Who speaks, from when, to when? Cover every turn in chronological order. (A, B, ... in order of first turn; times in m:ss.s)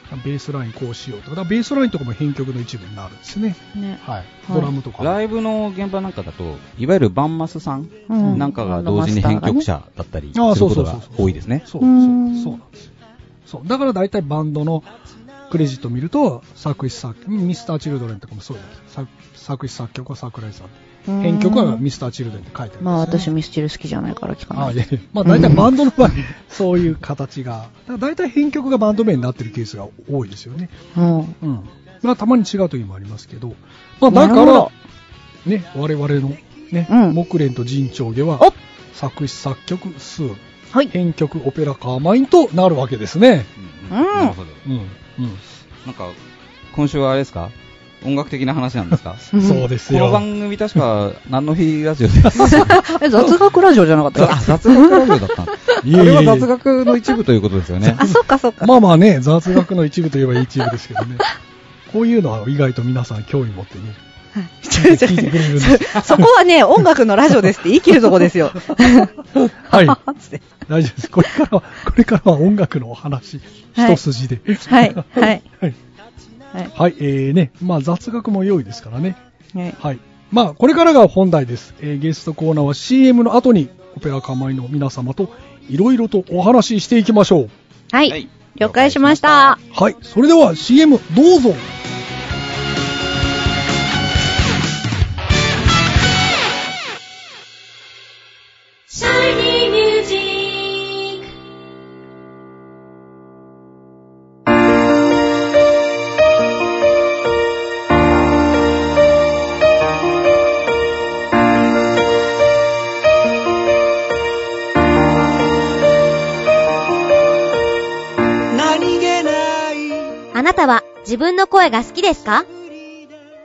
0:00.1-0:05.2 A
0:03.8-0:04.7 B
0:05.0-0:11.6 C
0:08.1-0:09.6 B
0:10.3-0:12.9 A
0:11.8-0:12.6 B
0:13.5-0:14.9 A
0:15.5-0:23.3 A
0:21.1-0:21.8 B
0:22.8-0:25.7 B
0:24.5-0:30.7 A
0:31.0-0:31.4 B
0:31.4-0:34.7 A
0:34.1-0:34.7 B
0:35.4-0:43.5 A
0:36.9-0:37.2 B
0:43.6-0:44.6 C
0:43.9-0:44.4 B
0:44.6-0:45.4 A
0:45.8-0:46.2 C
0:46.7-0:49.2 C
0:49.3-0:49.6 B
0:49.4-0:50.2 A
0:49.9-0:52.8 C
0:52.3-0:52.6 A
0:52.4-0:55.1 B
0:54.2-0:58.0 C
0:55.8-0:56.5 A
0:57.9-1:01.3 A
0:58.0-0:58.7 B
1:01.9-1:04.0 A
1:04.4-1:09.1 B
1:04.7-1:06.3 A
1:08.6-1:10.0 A
1:09.7-1:10.4 B
1:10.7-1:15.8 A
1:13.8-1:14.0 B
1:14.6-1:15.4 B
1:16.7-1:19.2 A
1:19.8-1:27.5 A
1:27.9-1:29.6 B
1:28.1-1:29.6 C
1:29.7-1:31.6 A
1:38.9-1:41.3 D
1:58.5-2:00.3 D
2:00.4-2:02.4 E